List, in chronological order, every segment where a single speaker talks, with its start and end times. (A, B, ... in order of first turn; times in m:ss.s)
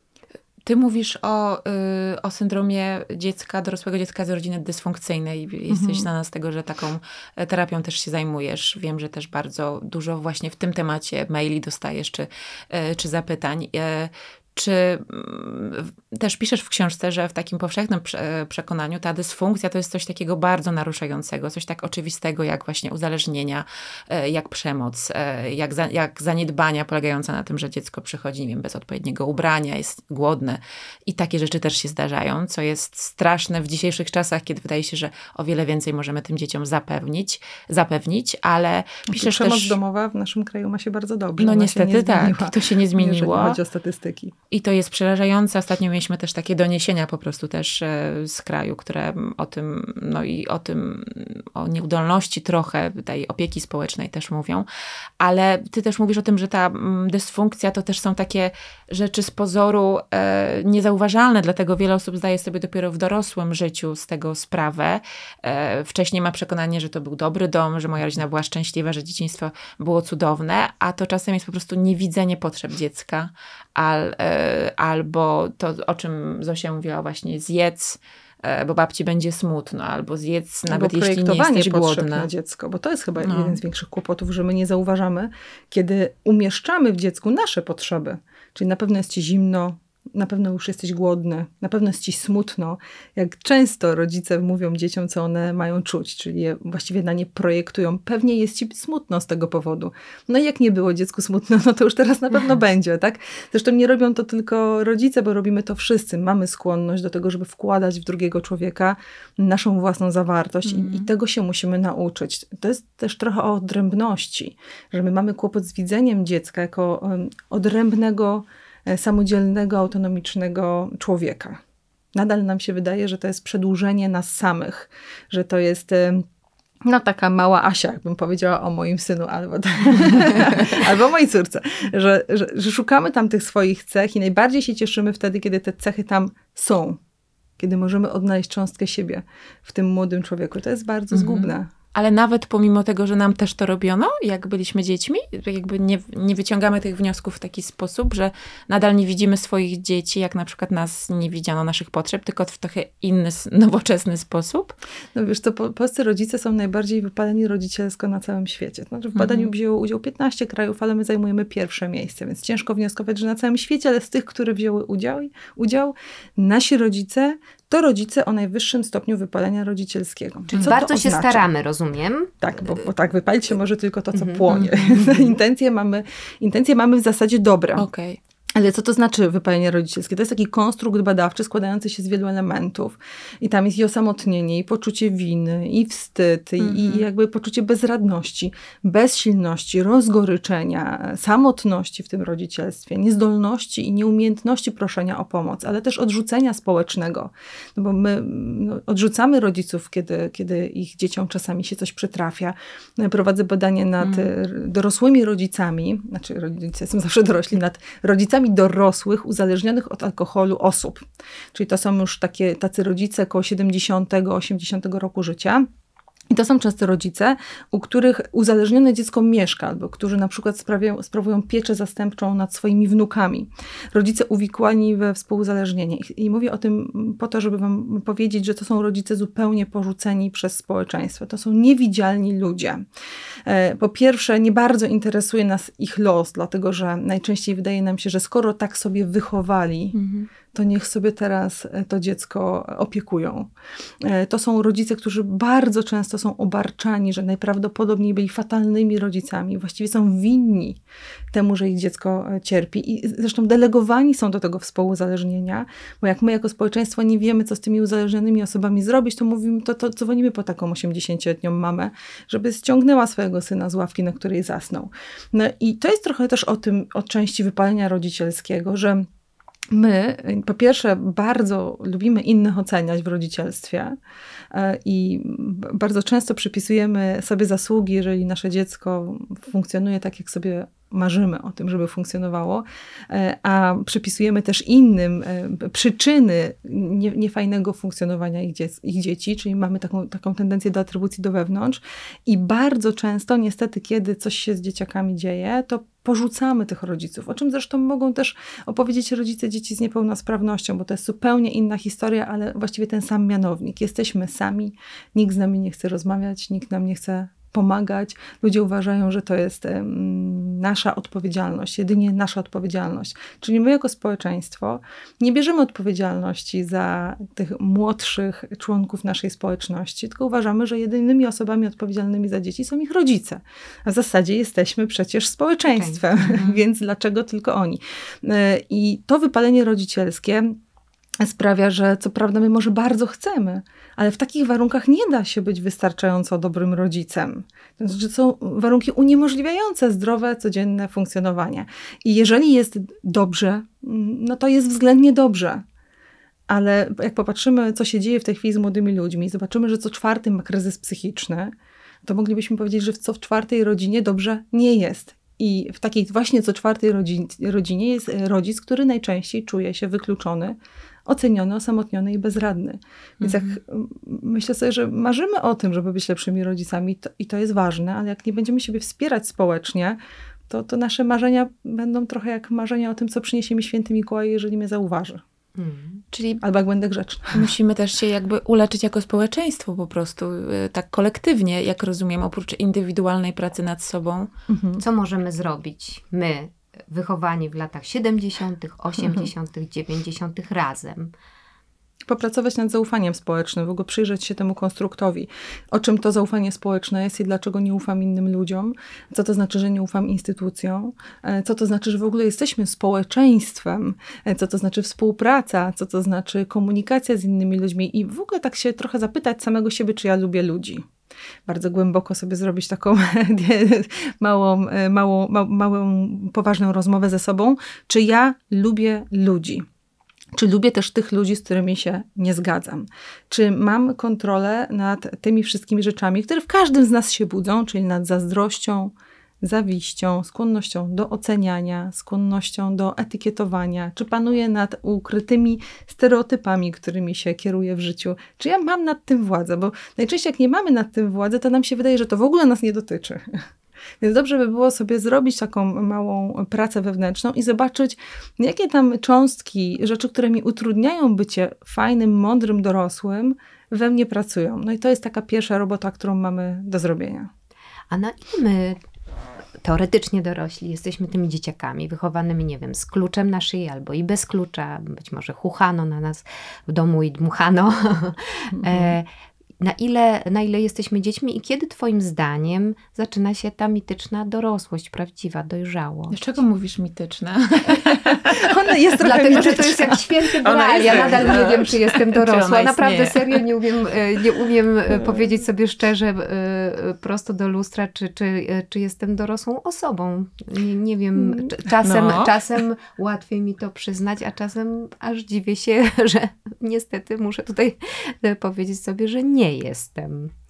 0:00.6-0:39.8 A
0:05.7-0:06.1 B
0:39.1-0:44.3 B
0:41.4-0:43.6 A
0:44.5-0:54.6 A
0:55.2-1:22.3 A
1:20.7-2:01.6 B
1:23.2-1:23.6 A
1:50.6-1:51.1 A
2:02.1-2:06.2 B
2:06.8-2:17.0 B
2:17.6-2:21.7 B
2:21.1-2:34.7 A
2:35.1-2:51.4 B
2:39.1-2:39.5 A
2:50.5-2:52.3 C
2:52.4-2:57.9 B
2:54.1-2:54.4 C
2:54.5-2:55.0 A
2:55.0-2:55.3 C
2:57.8-2:58.2 A
2:58.5-3:35.7 B
3:06.6-3:07.1 A
3:24.0-3:24.3 A
3:36.3-3:52.8 B
3:53.4-4:00.0 B
3:59.9-4:00.3 A
4:00.5-4:03.5 B
4:04.0-4:10.8 B
4:11.3-4:29.0 B
4:29.7-4:34.0 B
4:34.5-5:30.6 B
5:25.7-5:26.0 C
5:26.2-5:26.6 A
5:31.2-5:45.6 B
5:46.5-5:51.5 B
5:52.0-6:10.0 B
6:03.2-6:03.6 A
6:10.5-6:15.2 B
6:15.6-6:16.0 C
6:16.1-6:16.4 A
6:16.4-6:17.5 B
6:17.3-6:24.3 A
6:24.5-6:24.8 B
6:24.8-6:31.1 C
6:32.1-6:50.8 B
6:51.5-6:59.6 B
7:00.3-7:23.4 B
7:24.0-7:37.3 B
7:37.9-7:38.8 C
7:39.6-7:49.1 C
7:48.6-7:48.9 B
7:49.6-7:56.2 C
7:56.1-7:58.5 A
7:58.3-8:00.1 B
7:59.0-8:20.3 C
7:59.4-7:59.8 A
8:00.4-8:03.4 A
8:00.9-8:01.5 B
8:11.8-8:12.4 A